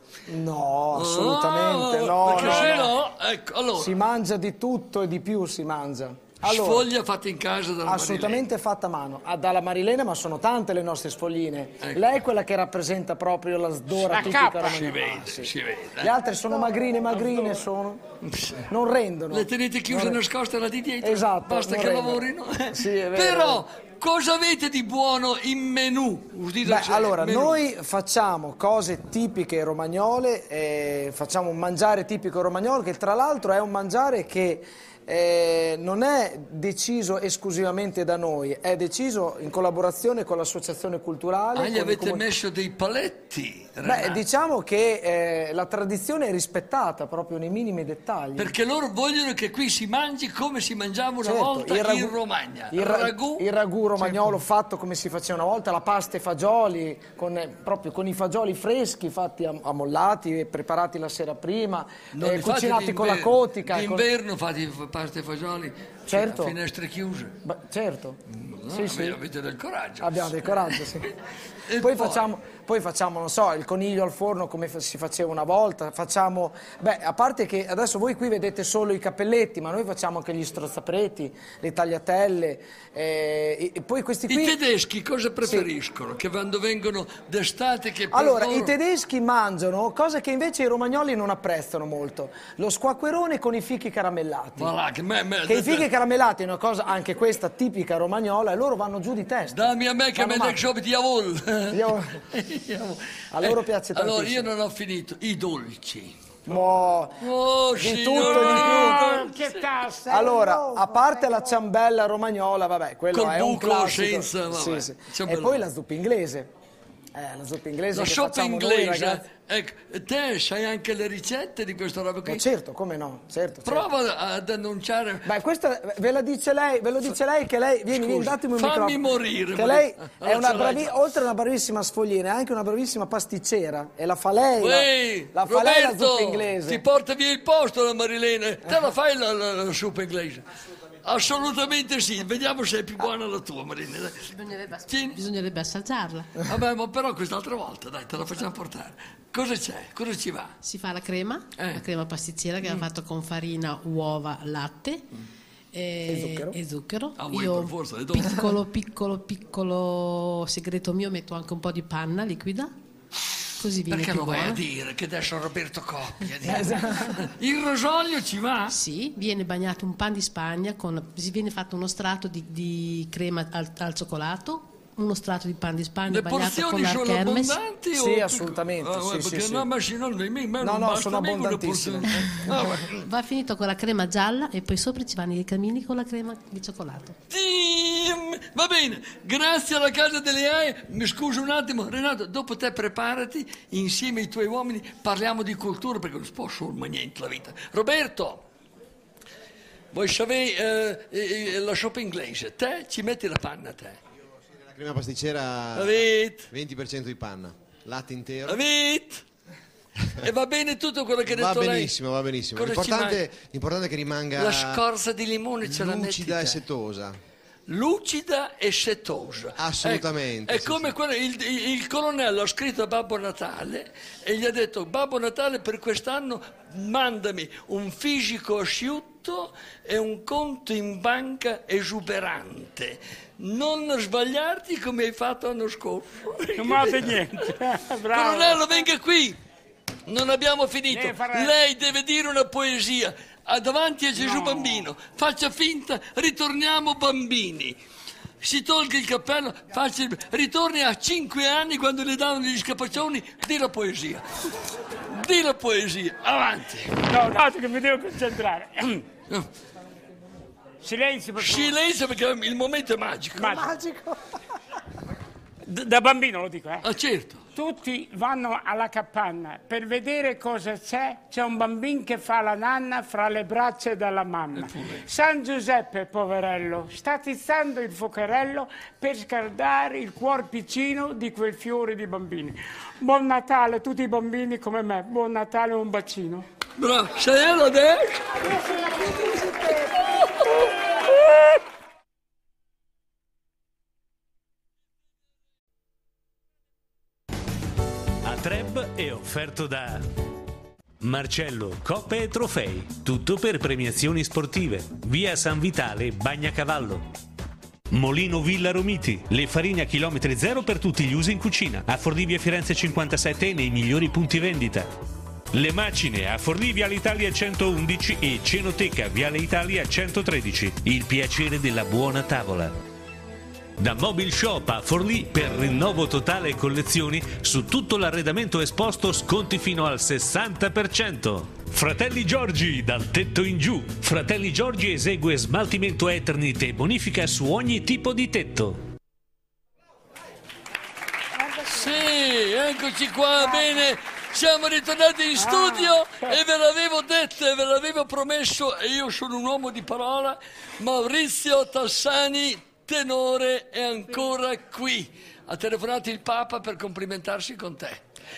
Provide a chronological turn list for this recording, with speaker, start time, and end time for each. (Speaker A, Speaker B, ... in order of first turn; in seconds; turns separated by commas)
Speaker A: 0.3-2.9, Speaker B: 0.9-3.9, Speaker C: 2.3-2.8, Speaker A: 3.7-6.9, Speaker B: 6.4-8.5, Speaker A: 7.8-18.0, Speaker C: 14.1-14.8, Speaker B: 14.1-16.1, Speaker C: 17.1-17.7, Speaker B: 18.3-18.6, Speaker A: 18.7-20.2, Speaker B: 19.3-27.6, Speaker A: 21.0-23.6, Speaker A: 26.6-42.3, Speaker B: 41.5-44.2, Speaker A: 43.8-48.5, Speaker B: 48.4-53.4, Speaker A: 51.2-52.1, Speaker A: 52.7-64.1, Speaker B: 54.0-54.3, Speaker B: 62.1-67.3, Speaker A: 66.1-66.5, Speaker A: 67.4-69.2, Speaker B: 68.4-70.9, Speaker A: 70.0-71.1, Speaker B: 71.7-72.3, Speaker A: 71.8-84.6, Speaker B: 84.3-88.7, Speaker A: 85.4-85.7, Speaker A: 88.1-94.7, Speaker B: 94.6-95.9, Speaker A: 95.5-100.6, Speaker B: 99.5-106.1, Speaker A: 101.7-102.1, Speaker A: 103.3-104.5, Speaker A: 106.5-109.0, Speaker B: 107.2-109.7, Speaker C: 108.2-110.2, Speaker D: 110.1-111.6, Speaker A: 110.1-116.5, Speaker B: 113.1-115.6, Speaker A: 117.1-119.2, Speaker B: 117.9-122.4, Speaker A: 122.2-123.9, Speaker B: 123.6-125.3, Speaker A: 125.2-136.8, Speaker B: 127.9-130.9, Speaker B: 134.6-140.4, Speaker B: 141.0-145.2, Speaker E: 145.1-146.2, Speaker B: 146.4-150.5, Speaker E: 150.6-155.0, Speaker B: 151.6-151.8, Speaker E: 155.7-162.7, Speaker A: 156.0-156.6, Speaker B: 157.2-158.5, Speaker E: 163.6-164.6, Speaker B: 163.8-168.8, Speaker A: 166.5-166.8, Speaker E: 168.7-177.6, Speaker B: 176.1-183.1, Speaker A: 177.9-179.7, Speaker A: 180.6-182.2, Speaker E: 183.0-187.1, Speaker B: 187.3-198.4, Speaker B: 199.9-204.0, Speaker F: 204.7-208.6, Speaker B: 205.7-206.5, Speaker B: 208.5-209.2, Speaker B: 210.2-211.9, Speaker F: 211.3-214.8, Speaker B: 212.5-213.2, Speaker B: 214.4-216.6, Speaker F: 215.6-217.2, Speaker B: 217.7-237.5, Speaker F: 219.6-220.9, Speaker C: 236.6-238.8, Speaker B: 238.1-239.4, Speaker B: 240.1-247.8, Speaker C: 240.9-241.6, Speaker C: 244.2-244.8, Speaker B: 248.4-254.2, Speaker B: 255.1-257.1, Speaker C: 257.1-259.0, Speaker C: 260.8-261.7, Speaker B: 261.4-263.6, Speaker C: 263.4-263.6, Speaker D: 263.4-264.2, Speaker C: 265.6-266.8, Speaker B: 266.8-267.4, Speaker C: 267.5-286.4, Speaker B: 274.5-275.1, Speaker B: 286.8-288.5, Speaker D: 288.3-290.1, Speaker G: 298.2-300.0, Speaker G: 301.0-307.1, Speaker G: 307.9-314.9, Speaker G: 315.5-322.7, Speaker G: 323.8-338.8, Speaker D: 341.4-342.0, Speaker B: 341.7-358.0, Speaker D: 343.4-343.7, Speaker C: 345.4-346.4